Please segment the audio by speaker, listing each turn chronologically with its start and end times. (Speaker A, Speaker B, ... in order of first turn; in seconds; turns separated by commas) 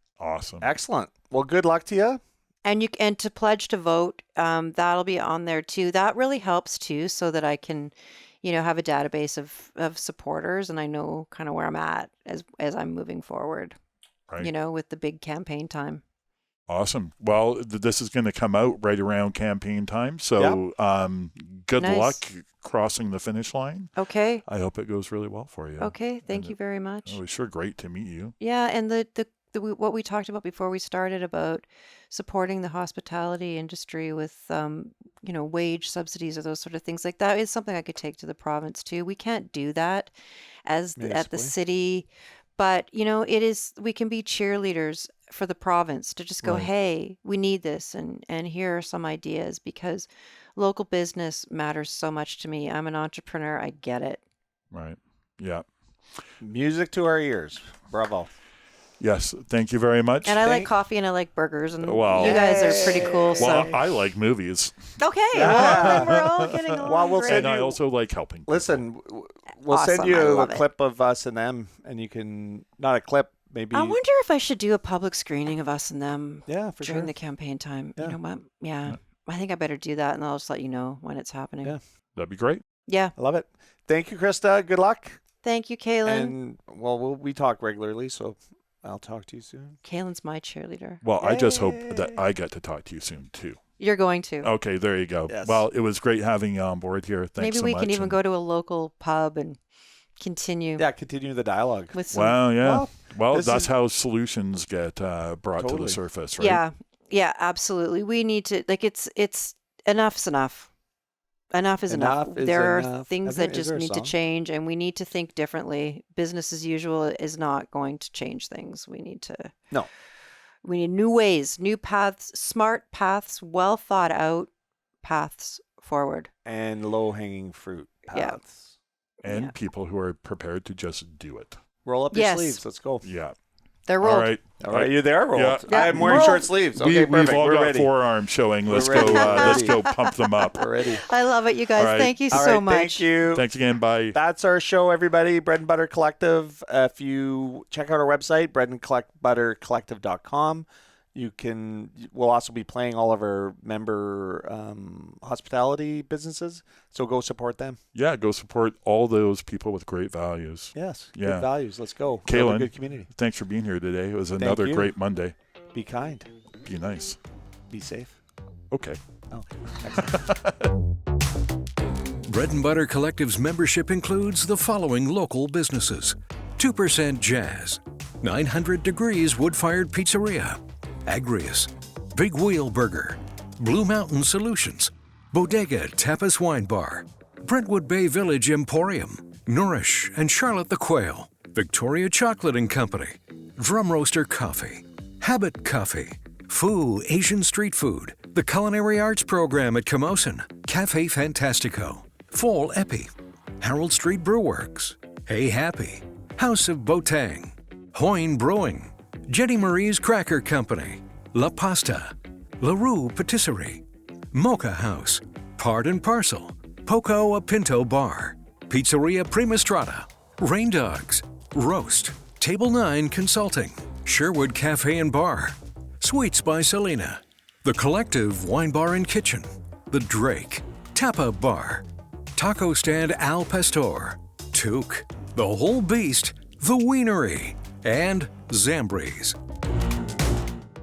Speaker A: 0.2-0.7, Speaker B: 0.6-2.2, Speaker C: 2.6-13.7, Speaker C: 14.4-16.0, Speaker A: 16.7-23.9, Speaker C: 21.8-22.2, Speaker C: 23.9-24.4, Speaker A: 24.5-26.5, Speaker C: 25.8-27.2, Speaker A: 27.1-28.3, Speaker C: 28.4-40.1, Speaker C: 40.6-54.2, Speaker B: 41.0-41.5, Speaker A: 46.4-46.7, Speaker A: 54.7-55.6, Speaker B: 56.4-58.3, Speaker A: 59.0-60.4, Speaker C: 60.2-63.8, Speaker B: 60.4-60.7, Speaker A: 61.8-66.7, Speaker B: 62.1-63.8, Speaker C: 65.0-67.5, Speaker B: 65.3-66.2, Speaker B: 66.8-67.8, Speaker A: 67.2-68.8, Speaker B: 68.5-74.0, Speaker C: 69.7-70.6, Speaker C: 73.7-81.7, Speaker B: 76.5-77.1, Speaker A: 82.2-82.6, Speaker C: 82.9-83.1, Speaker B: 83.2-85.2, Speaker C: 85.4-86.3, Speaker B: 86.0-89.8, Speaker C: 89.8-91.0, Speaker A: 91.0-93.6, Speaker B: 91.2-92.2, Speaker C: 93.8-94.5, Speaker A: 94.4-98.2, Speaker B: 95.3-95.6, Speaker C: 97.4-99.6, Speaker C: 100.2-100.8, Speaker B: 100.8-102.0, Speaker C: 101.9-102.4, Speaker A: 102.1-106.6, Speaker B: 102.6-103.7, Speaker B: 105.6-106.0, Speaker C: 106.4-110.7, Speaker C: 111.5-119.5, Speaker B: 111.9-114.1, Speaker C: 120.6-124.5, Speaker C: 125.0-126.3, Speaker B: 126.4-128.8, Speaker C: 128.1-128.4, Speaker C: 129.2-129.5, Speaker A: 129.2-131.6, Speaker B: 131.8-133.1, Speaker C: 132.1-132.6, Speaker A: 133.0-133.3, Speaker C: 133.9-134.3, Speaker A: 134.0-140.7, Speaker B: 134.6-137.9, Speaker C: 135.7-136.5, Speaker B: 138.7-139.8, Speaker C: 138.9-143.1, Speaker B: 140.5-141.1, Speaker A: 141.7-142.2, Speaker B: 142.3-143.5, Speaker A: 143.3-144.2, Speaker B: 144.1-157.8, Speaker A: 157.9-161.5, Speaker B: 160.7-163.1, Speaker A: 162.2-165.3, Speaker B: 164.4-164.9, Speaker B: 165.7-166.3, Speaker A: 166.6-167.2, Speaker B: 167.7-168.2, Speaker A: 168.7-169.0, Speaker B: 169.3-170.2, Speaker A: 169.9-170.7, Speaker D: 172.2-239.4